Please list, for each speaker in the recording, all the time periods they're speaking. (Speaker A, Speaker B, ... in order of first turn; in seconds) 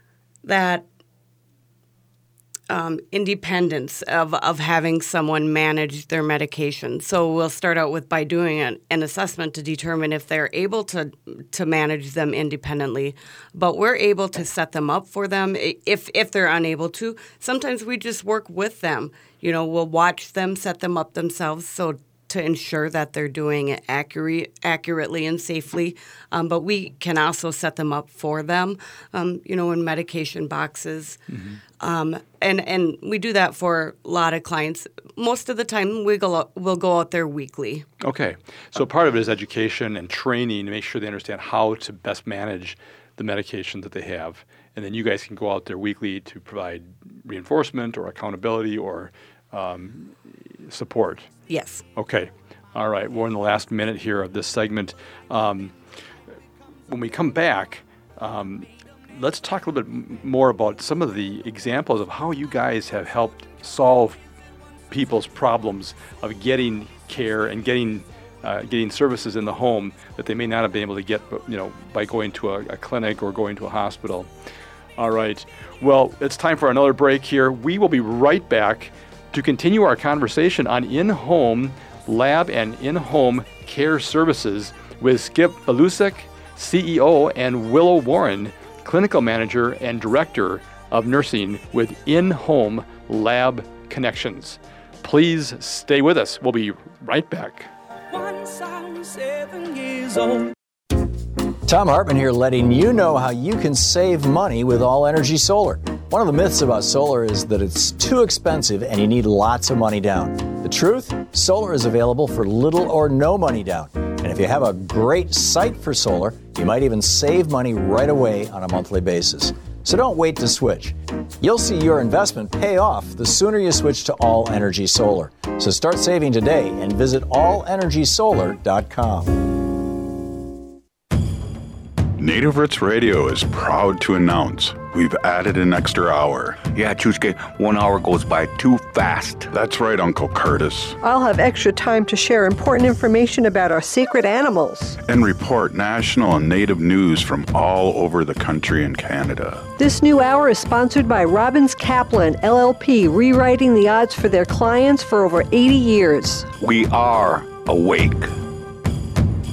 Speaker A: 0.4-0.8, 2.7-31.2, 31.8-37.9, 51.5-51.8
Speaker B: 31.3-31.6, 38.0-51.3, 52.0-55.7, 56.9-64.2, 64.9-74.3, 75.0-97.7
Speaker C: 98.1-100.5
Speaker D: 101.7-129.3
Speaker E: 132.2-136.7, 139.5-141.0, 145.0-149.7, 156.6-158.3
Speaker F: 136.6-139.5
Speaker G: 141.0-145.0, 149.8-156.5